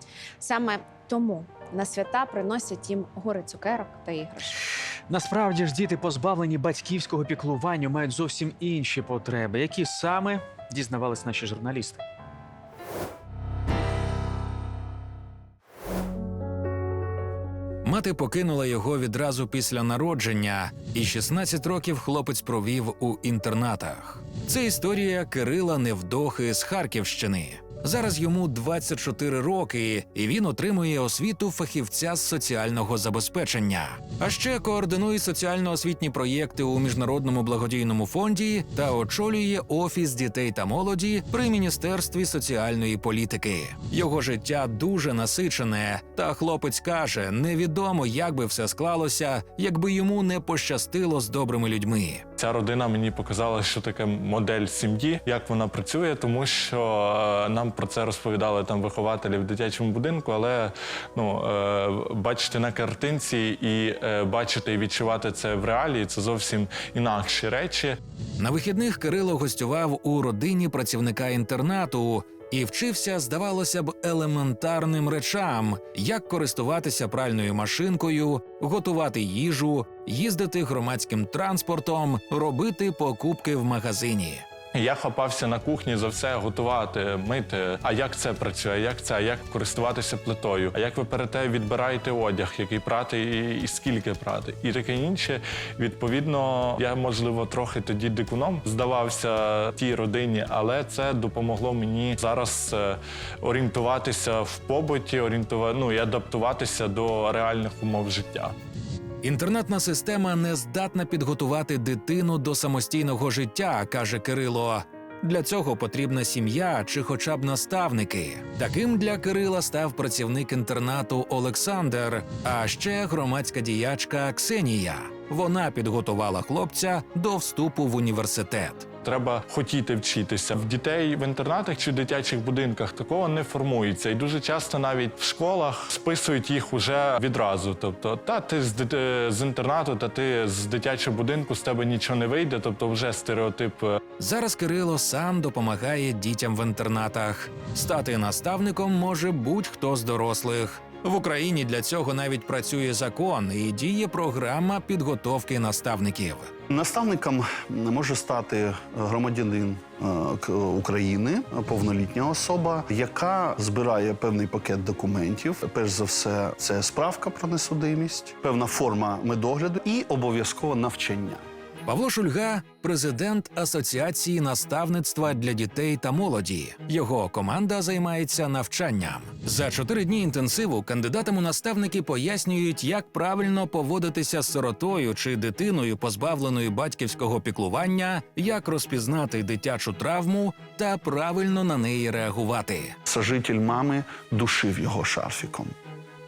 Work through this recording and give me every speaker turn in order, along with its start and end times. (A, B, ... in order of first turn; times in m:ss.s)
0:00.4-0:04.6 A
0:05.1-0:12.0 B
0:17.8-0:52.2 C
0:52.4-1:08.0 D
1:08.4-1:24.4 C
1:24.7-1:48.5 D
1:49.2-2:08.9 C
2:09.0-2:24.0 D
2:24.2-2:36.5 C
2:36.7-2:51.4 E
2:51.8-3:13.0 C
3:13.1-3:15.7 E